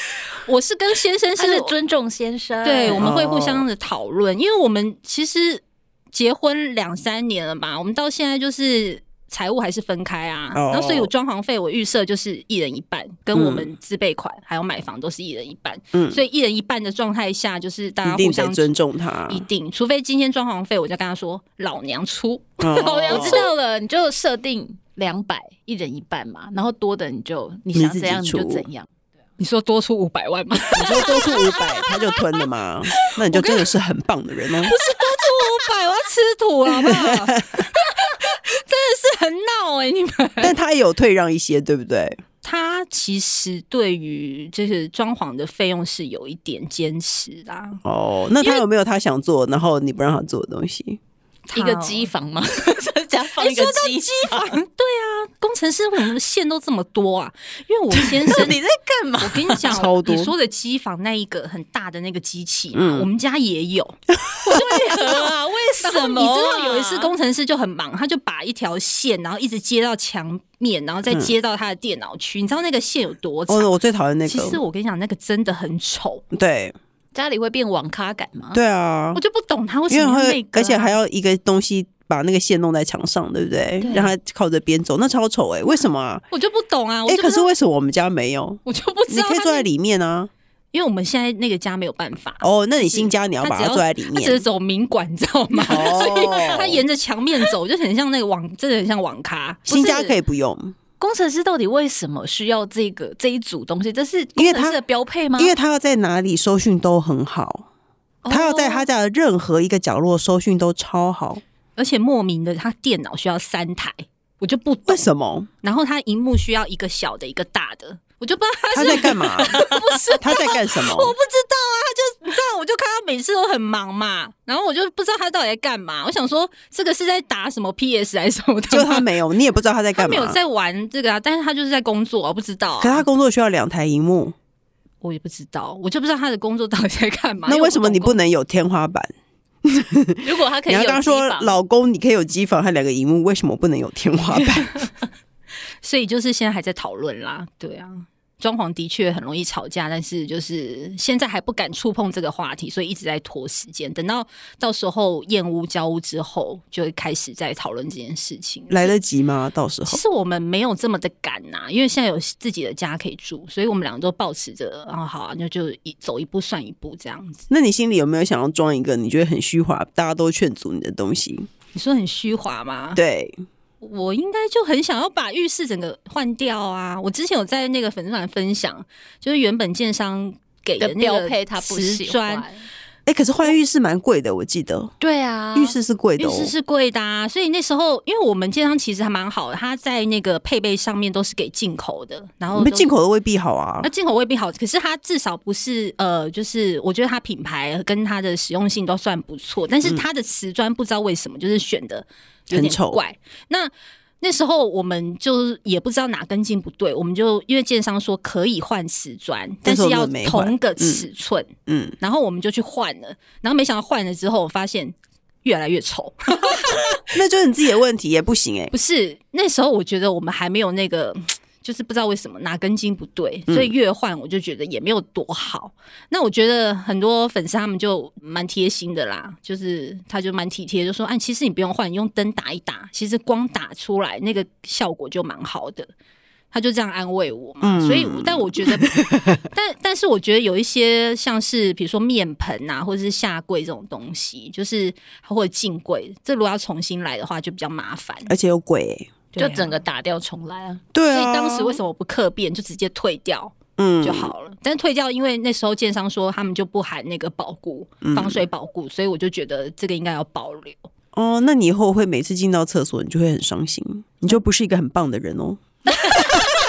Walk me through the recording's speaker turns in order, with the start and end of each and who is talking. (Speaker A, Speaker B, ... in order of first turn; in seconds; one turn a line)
Speaker A: 0.4-1.7
Speaker B: 1.4-3.1
Speaker A: 2.6-18.7
Speaker C: 2.9-3.6
Speaker C: 10.5-11.1
Speaker C: 13.3-13.7
Speaker C: 15.9-16.2
Speaker C: 18.0-19.5
Speaker A: 19.3-23.5
Speaker C: 22.6-23.5
Speaker B: 22.8-28.9
Speaker C: 27.7-28.6
Speaker A: 29.4-32.3
Speaker C: 30.8-34.7
Speaker A: 33.0-33.7
Speaker A: 34.6-40.5
Speaker C: 40.4-42.2
Speaker A: 42.4-47.8
Speaker C: 47.8-51.0
Speaker A: 48.4-48.6
Speaker A: 51.5-52.1
Speaker B: 51.5-54.6
Speaker A: 53.3-58.6
Speaker B: 58.2-59.7
Speaker A: 59.2-73.7
Speaker C: 59.6-60.3
Speaker C: 62.7-63.1
Speaker B: 64.5-67.1
Speaker C: 71.1-71.3
Speaker C: 73.5-74.6
Speaker A: 74.2-76.2
Speaker C: 76.3-76.7
Speaker B: 77.1-78.6
Speaker C: 78.5-79.2
Speaker A: 79.1-81.0
Speaker C: 79.9-86.2
Speaker A: 83.8-84.1
Speaker A: 85.7-87.5
Speaker C: 87.1-90.3
Speaker A: 88.6-89.7
Speaker A: 90.7-99.7
Speaker C: 92.4-94.4
Speaker C: 95.6-96.8
Speaker B: 96.1-96.5
Speaker B: 99.7-100.2
Speaker C: 99.7-100.8
Speaker B: 101.0-105.5
Speaker C: 104.3-104.8
Speaker C: 105.3-107.7
Speaker A: 108.2-108.8
Speaker C: 108.3-111.4
Speaker A: 111.8-115.0
Speaker C: 114.9-115.5
Speaker A: 115.6-129.1
Speaker C: 118.7-119.6
Speaker B: 119.5-119.8
Speaker C: 120.2-121.1
Speaker C: 128.7-130.4
Speaker A: 129.9-133.0
Speaker C: 132.8-134.3
Speaker A: 135.0-138.2
Speaker C: 137.4-139.1
Speaker C: 139.6-144.8
Speaker B: 140.2-141.6
Speaker A: 145.8-158.9
Speaker C: 158.7-160.0
Speaker A: 159.8-167.4
Speaker C: 167.5-171.5
Speaker A: 171.7-173.0
Speaker C: 172.9-173.4
Speaker A: 173.8-182.6
Speaker B: 180.8-182.5
Speaker C: 183.1-184.9
Speaker B: 185.0-185.8
Speaker C: 185.5-186.5
Speaker A: 186.2-192.9
Speaker C: 192.5-193.9
Speaker A: 193.8-216.9
Speaker C: 202.5-203.0
Speaker C: 209.6-211.1
Speaker C: 211.7-212.0
Speaker C: 217.1-218.7
Speaker A: 218.7-235.9
Speaker C: 223.5-223.7
Speaker A: 236.5-248.3
Speaker C: 237.6-239.4
Speaker C: 248.3-249.1
Speaker A: 249.3-249.8
Speaker B: 249.4-250.8
Speaker C: 250.9-251.8
Speaker A: 251.1-260.9
Speaker C: 253.8-254.3
Speaker C: 258.0-258.4
Speaker C: 261.1-265.6
Speaker A: 265.9-266.5